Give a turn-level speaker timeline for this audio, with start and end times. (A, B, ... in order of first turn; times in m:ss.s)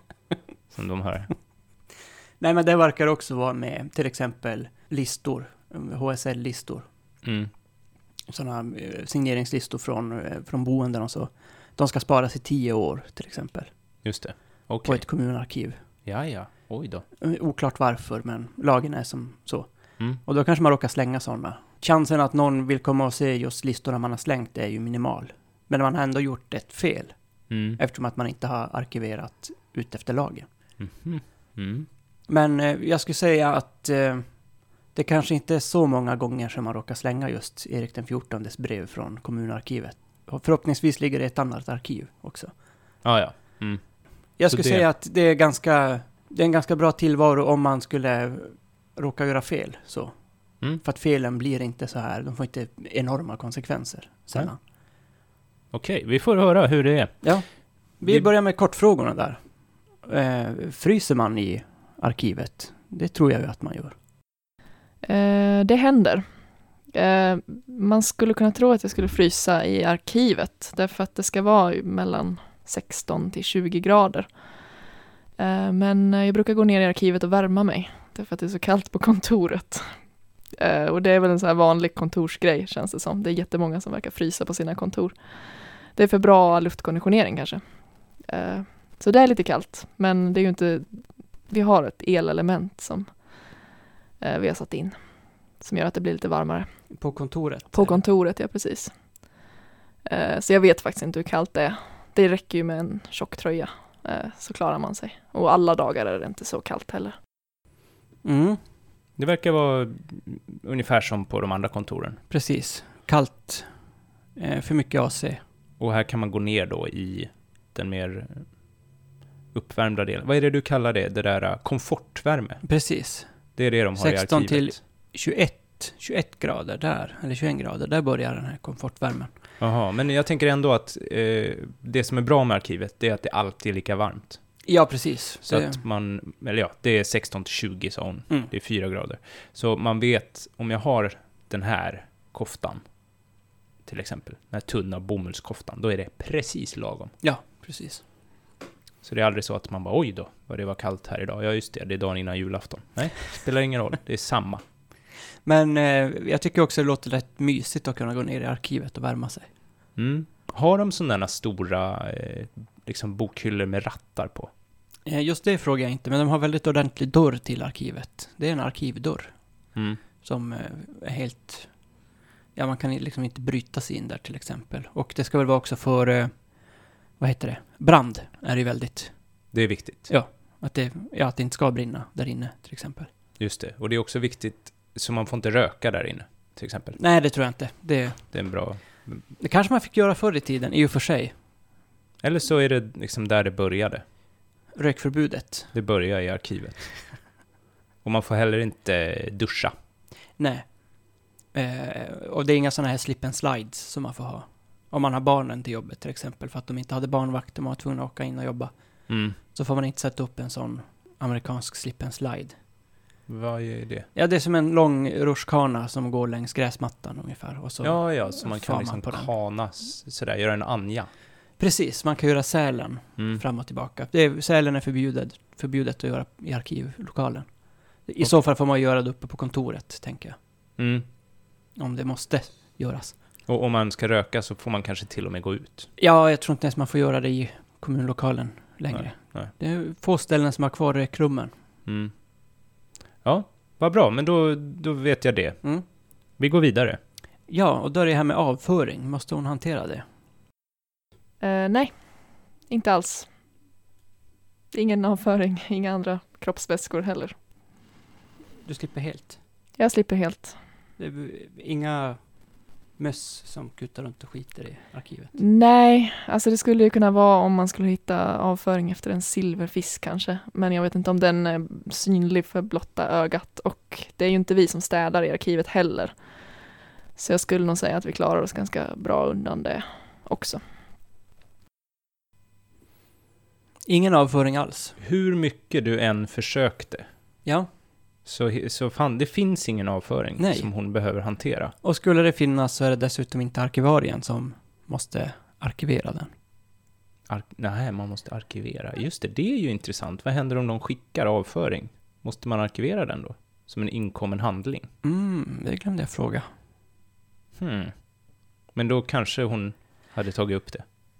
0:00.7-0:01.3 A
0:02.4-0:06.9 B
0:07.2-0:07.5 A
0:08.3-0:13.7 B
0:14.0-0:15.0 A
0:14.8-0:15.8 B
0:16.0-0:17.0 A
0:17.2-0:27.1 B
0:27.5-0:27.8 A
0:27.8-0:30.5 B
0:30.8-0:31.9 A
0:32.3-0:34.2 B
0:34.9-0:42.5 B
0:43.0-0:43.8 A
0:44.4-0:50.1 B
0:44.4-0:44.9 A
0:50.8-0:54.6 B
0:55.7-0:57.3 A
0:57.2-0:57.5 B
0:58.0-0:59.4 B
1:00.0-1:03.9 B
1:05.0-1:06.2 C
1:06.9-1:14.3 C
1:15.4-1:19.9 C
1:20.5-1:27.6 C
1:28.2-1:31.0 C
1:31.5-1:33.1 C
1:34.2-1:34.9 C
1:35.6-1:36.7 C
1:36.9-1:38.0 B
1:37.7-1:38.9 C
1:40.0-1:47.2 C
1:48.2-1:48.6 B
1:49.2-1:52.2 A
1:52.3-1:53.7 B
1:54.4-1:55.4 B
1:55.8-1:58.4 A
1:59.5-2:02.6 A
2:02.6-2:03.3 B
2:03.6-2:04.8 A
2:04.0-2:09.3 B
2:09.6-2:14.4 A
2:14.6-2:15.8 B
2:15.4-2:22.8 A
2:23.8-2:27.1 A
2:27.2-2:28.0 B
2:29.0-2:34.6 A
2:35.4-2:39.5 B
2:40.0-2:44.5 A
2:45.0-2:49.3 B
2:49.7-2:50.0 A
2:50.2-2:51.7 B
2:52.6-2:56.3 B
2:57.2-2:59.1 B
2:59.5-3:00.1 A
3:00.1-3:03.1 B
3:03.4-3:07.0 A
3:07.0-3:08.2 B
3:08.3-3:09.2 A
3:09.4-3:11.3 B
3:12.2-3:14.0 A
3:14.7-3:15.7 B
3:15.7-3:16.9 A
3:18.0-3:19.7 A
3:20.4-3:20.7 B
3:21.5-3:28.7 B
3:29.1-3:29.4 A
3:29.4-3:32.6 B
3:33.3-3:34.1 A
3:34.1-3:39.3 B
3:37.8-3:41.1 A
3:41.6-3:47.5 B
3:43.2-3:43.4 A
3:48.0-3:50.4 B
3:50.8-3:51.0 A
3:51.8-3:53.1 B
3:53.5-3:55.9 A
3:56.0-4:01.5 B
3:58.9-3:59.5 A
4:01.8-4:02.1 A
4:03.2-4:05.6 A
4:06.4-4:07.0 A
4:07.5-4:10.0 B
4:11.4-4:11.9 C
4:12.7-4:13.3 C
4:14.7-4:17.3 C
4:18.6-4:19.4 B
4:19.8-4:20.6 C
4:21.0-4:22.2 B
4:23.0-4:25.3 B
4:25.4-4:36.1 C
4:37.2-4:40.6 C
4:43.9-4:45.0 B
4:45.0-4:47.0 A
4:48.2-4:51.7 A
4:50.4-4:50.7 B
4:51.8-4:56.3 B
4:57.3-5:04.9 A
5:05.0-5:06.4 B
5:07.6-5:08.0 A
5:08.7-5:10.8 A